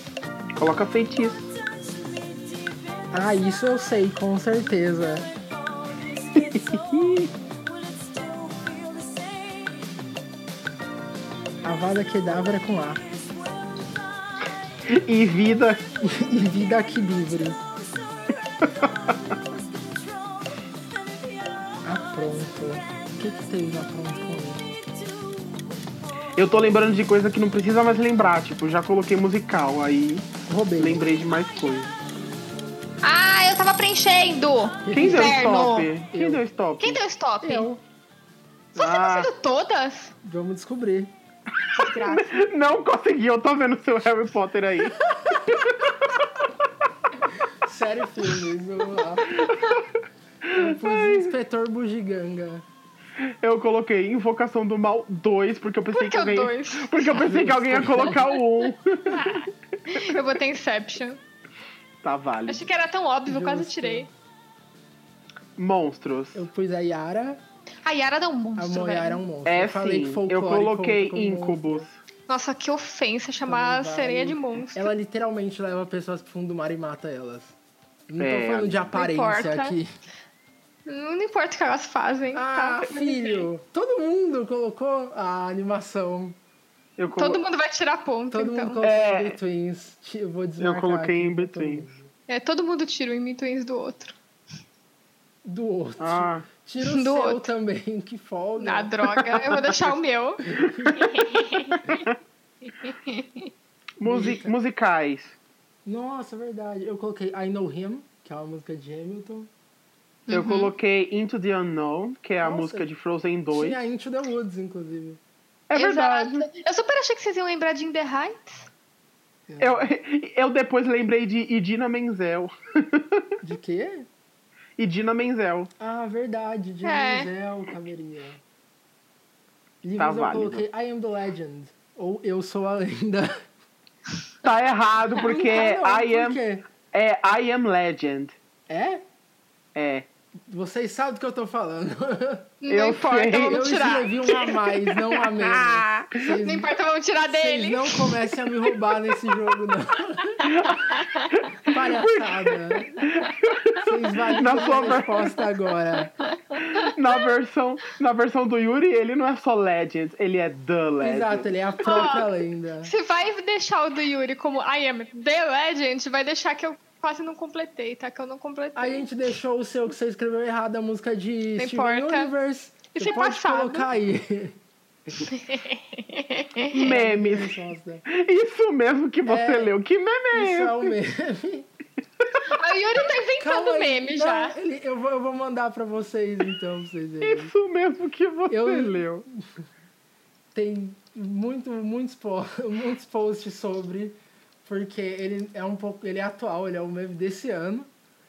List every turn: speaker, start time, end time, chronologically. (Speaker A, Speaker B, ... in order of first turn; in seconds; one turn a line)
Speaker A: 0.6-1.5
Speaker B: 1.6-3.3
Speaker C: 3.1-5.3
Speaker B: 5.4-10.0
Speaker A: 6.3-7.3
Speaker C: 11.6-13.0
Speaker B: 13.0-14.4
Speaker A: 14.9-15.8
Speaker C: 16.0-17.6
Speaker B: 16.9-23.1
Speaker A: 18.6-18.9
Speaker C: 21.8-24.6
Speaker B: 24.7-25.9
Speaker A: 26.3-31.9
Speaker C: 30.5-31.1
Speaker D: 33.0-35.9
Speaker C: 34.8-35.4
Speaker A: 34.9-37.0
Speaker C: 36.1-36.4
Speaker D: 36.8-37.7
Speaker C: 37.4-37.8
Speaker A: 38.8-39.3
Speaker D: 38.8-40.1
Speaker C: 40.2-41.1
Speaker A: 41.7-46.5
Speaker D: 41.8-42.3
Speaker C: 45.1-45.6
Speaker C: 47.5-49.5
Speaker A: 49.3-49.8
Speaker A: 50.4-51.3
Speaker C: 50.5-52.6
Speaker A: 53.2-60.1
Speaker D: 55.9-57.2
Speaker C: 57.1-58.2
Speaker D: 59.1-61.2
Speaker A: 62.0-62.7
Speaker D: 62.5-64.1
Speaker C: 63.3-64.1
Speaker A: 65.6-66.4
Speaker C: 66.3-67.4
Speaker D: 67.8-69.2
Speaker C: 68.5-71.9
Speaker A: 69.4-72.0
Speaker D: 72.3-74.9
Speaker C: 73.4-77.5
Speaker C: 78.1-79.9
Speaker A: 78.2-78.9
Speaker D: 78.9-79.8
Speaker D: 80.8-83.5
Speaker C: 82.3-86.4
Speaker A: 87.0-87.4
Speaker D: 87.1-88.8
Speaker C: 88.3-92.1
Speaker A: 88.8-89.4
Speaker A: 90.6-91.9
Speaker D: 92.3-94.1
Speaker C: 95.4-98.9
Speaker A: 96.0-96.5
Speaker D: 96.8-97.5
Speaker D: 98.6-102.0
Speaker A: 99.1-99.8
Speaker C: 100.6-101.1
Speaker A: 100.6-102.1
Speaker D: 102.8-103.5
Speaker A: 104.0-105.3
Speaker C: 104.0-104.5
Speaker C: 105.8-109.5
Speaker D: 110.3-110.7
Speaker A: 110.3-113.8
Speaker C: 112.4-112.9
Speaker C: 113.5-115.2
Speaker A: 115.7-116.5
Speaker D: 115.7-118.7
Speaker C: 119.5-119.8
Speaker A: 119.6-123.3
Speaker C: 123.4-124.1
Speaker A: 124.8-125.7
Speaker C: 125.8-128.4
Speaker D: 126.8-127.3
Speaker C: 129.8-133.4
Speaker A: 130.0-130.6
Speaker A: 134.4-138.3
Speaker C: 135.2-136.7
Speaker C: 138.7-139.0
Speaker A: 139.7-140.1
Speaker C: 140.5-142.5
Speaker D: 142.6-144.8
Speaker A: 142.7-143.7
Speaker C: 143.4-146.7
Speaker A: 145.4-146.1
Speaker D: 146.3-148.3
Speaker C: 147.2-150.5
Speaker A: 150.4-155.4
Speaker D: 150.7-151.3
Speaker C: 151.7-153.0
Speaker C: 153.8-156.1
Speaker D: 156.2-157.1
Speaker A: 156.6-161.5
Speaker C: 161.0-162.9
Speaker D: 161.8-162.3
Speaker D: 162.8-169.1
Speaker C: 168.7-174.6
Speaker D: 171.6-172.3
Speaker D: 172.9-173.9
Speaker D: 175.2-176.9
Speaker A: 176.7-180.9
Speaker C: 176.8-178.0
Speaker C: 179.2-179.7
Speaker C: 180.3-181.7
Speaker D: 182.5-184.6
Speaker C: 183.4-187.5
Speaker A: 187.2-189.2
Speaker C: 188.5-189.4
Speaker C: 190.5-197.9